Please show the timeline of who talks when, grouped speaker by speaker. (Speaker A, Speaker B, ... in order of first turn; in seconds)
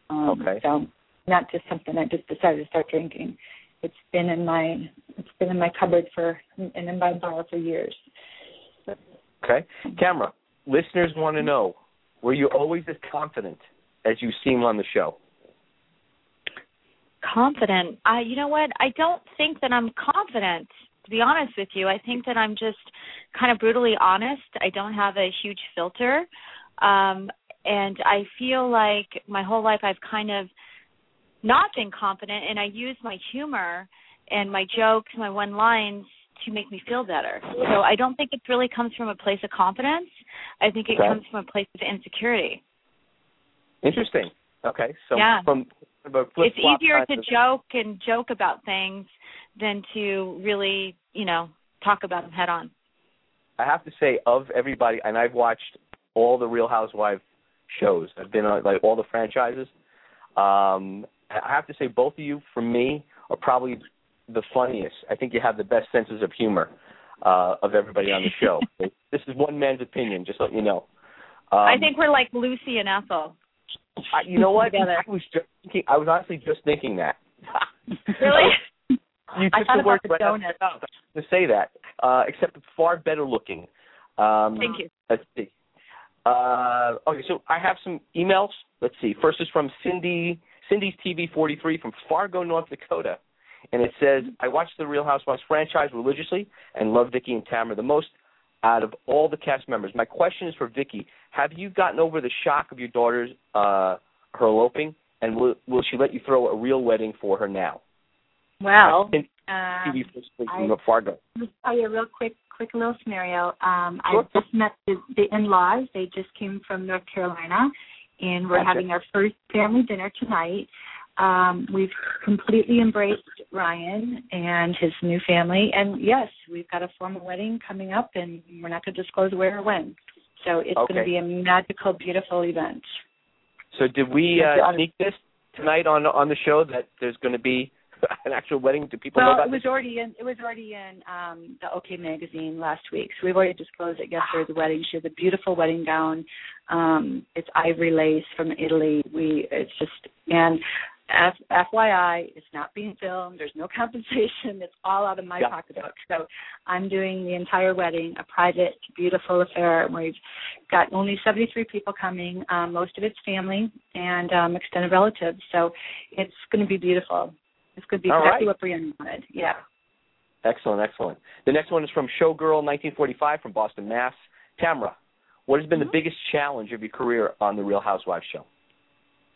Speaker A: 0.1-8.0, 79.5-80.6, 108.6-110.8, 111.4-132.8, 134.3-134.8, 139.2-160.2, 160.7-169.6
Speaker B: 0.3-0.6, 9.4-15.2, 40.9-41.2, 43.8-47.3, 53.6-59.7, 60.4-70.9, 71.5-71.9, 74.1-77.6, 79.3-85.5, 86.2-93.2, 93.7-107.8, 108.8-109.2, 109.8-111.2, 118.5-118.8, 130.8-131.1, 133.7-139.6, 168.1-168.5, 170.4-175.0, 175.5-178.5
Speaker C: 17.2-26.3, 26.8-30.5, 31.4-42.6, 45.1-45.5, 46.4-52.7, 71.6-73.4, 74.6-75.0, 78.2-78.6, 84.6-84.9